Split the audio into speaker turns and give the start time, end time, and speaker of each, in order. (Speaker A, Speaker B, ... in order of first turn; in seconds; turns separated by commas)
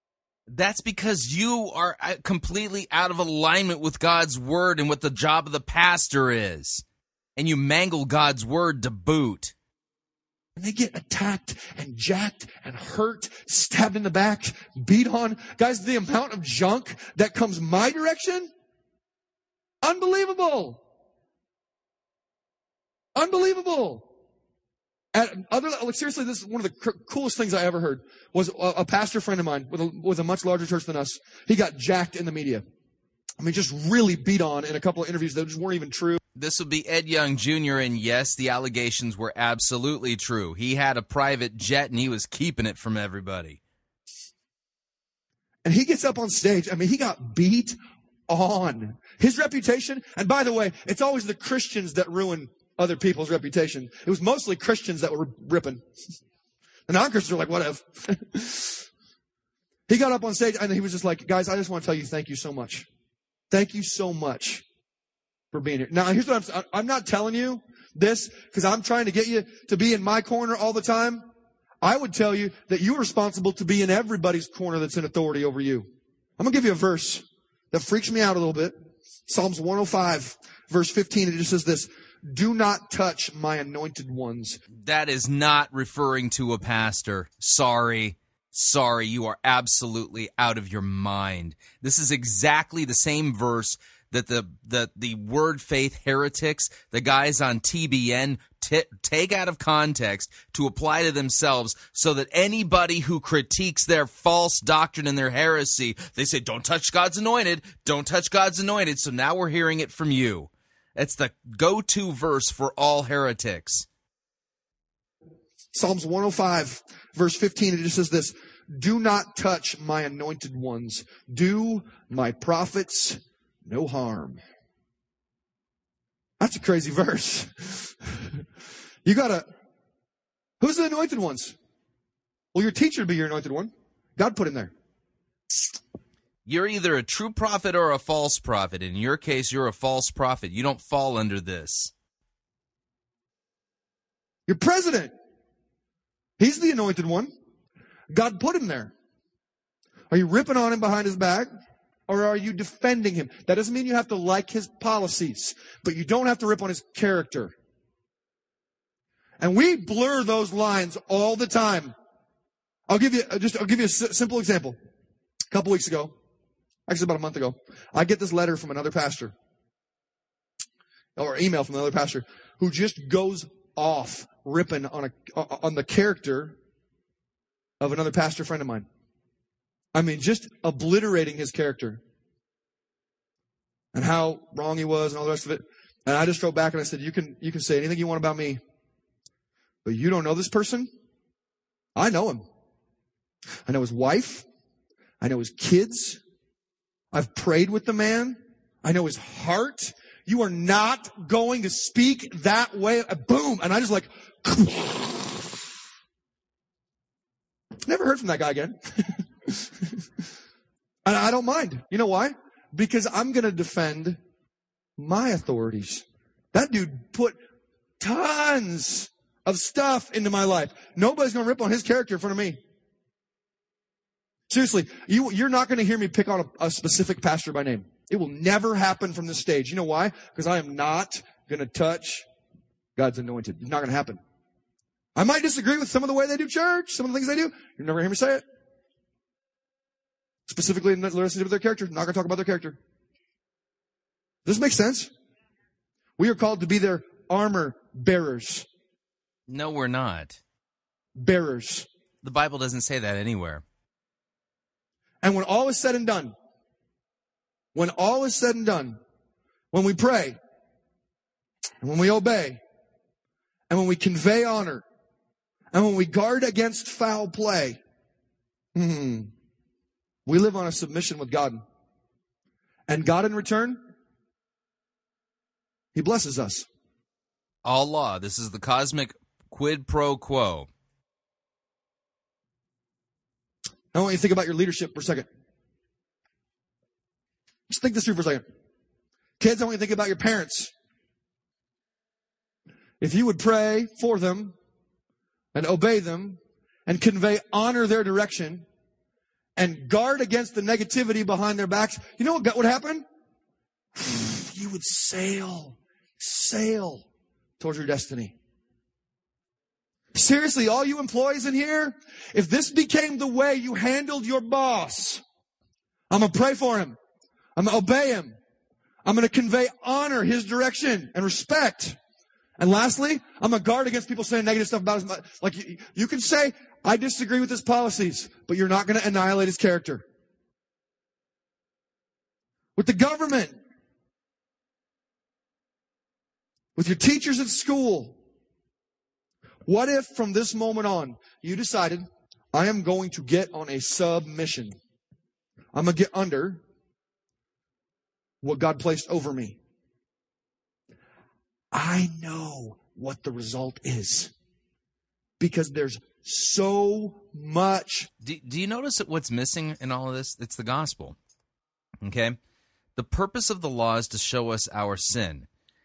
Speaker A: 0.5-6.8, Speaker A: 7.4-9.5, Speaker B: 10.6-18.5, Speaker B: 19.8-20.8, Speaker B: 23.1-24.1, Speaker B: 25.1-32.6, Speaker B: 33.4-36.2, Speaker A: 36.4-43.6, Speaker B: 45.6-47.8, Speaker B: 48.3-55.8, Speaker B: 56.9-58.9, Speaker B: 59.9-62.9, Speaker B: 63.5-64.6, Speaker B: 65.5-71.3, Speaker B: 71.8-75.9, Speaker B: 76.4-78.8, Speaker B: 79.3-84.6, Speaker A: 84.8-113.9, Speaker B: 115.8-124.4, Speaker B: 126.4-128.1, Speaker B: 129.1-129.5, Speaker B: 130.6-131.6, Speaker B: 132.5-134.7, Speaker A: 136.5-141.9, Speaker B: 144.5-145.1, Speaker B: 146.4-147.3, Speaker B: 148.1-148.9, Speaker B: 150.1-151.5, Speaker B: 152.1-157.5, Speaker B: 159.4-161.9, Speaker B: 162.9-164.8, Speaker B: 165.5-166.2, Speaker B: 166.9-169.3, Speaker B: 171.2-176.6, Speaker B: 177.8-178.9, Speaker B: 179.9-182.0, Speaker B: 183.9-188.6, Speaker B: 189.8-190.9, Speaker B: 192.0-192.4, Speaker B: 193.7-194.4, Speaker B: 195.2-196.2, Speaker B: 197.1-205.6, Speaker B: 207.9-209.7, Speaker B: 211.1-214.2, Speaker B: 215.0-217.4, Speaker B: 218.0-222.6, Speaker B: 224.5-232.3, Speaker B: 233.0-234.2, Speaker B: 235.2-238.4, Speaker B: 240.5-242.8, Speaker B: 244.4-245.1, Speaker B: 246.2-248.7, Speaker A: 249.5-250.4, Speaker B: 251.2-251.9, Speaker A: 252.2-253.6, Speaker B: 255.2-256.3, Speaker B: 257.8-259.0, Speaker B: 259.7-260.4, Speaker B: 261.8-262.6, Speaker B: 263.7-264.8, Speaker B: 265.7-267.8, Speaker B: 268.8-269.3, Speaker B: 270.3-271.6, Speaker B: 272.9-273.8, Speaker B: 275.9-276.7, Speaker A: 277.6-280.7, Speaker B: 283.9-285.3, Speaker B: 287.7-288.4, Speaker B: 289.4-290.7, Speaker B: 293.0-294.6, Speaker B: 295.5-298.6, Speaker B: 299.6-303.1, Speaker B: 304.0-307.1, Speaker B: 307.6-308.4, Speaker B: 310.1-315.2, Speaker B: 316.1-317.0, Speaker B: 317.6-318.4, Speaker B: 319.1-322.0, Speaker B: 322.6-330.0, Speaker B: 332.8-333.6, Speaker B: 336.8-338.2, Speaker B: 339.7-344.8, Speaker B: 345.7-346.6, Speaker B: 348.4-349.6, Speaker B: 351.7-354.3, Speaker B: 355.4-358.1, Speaker A: 358.2-361.2, Speaker A: 362.0-362.4, Speaker A: 363.0-365.5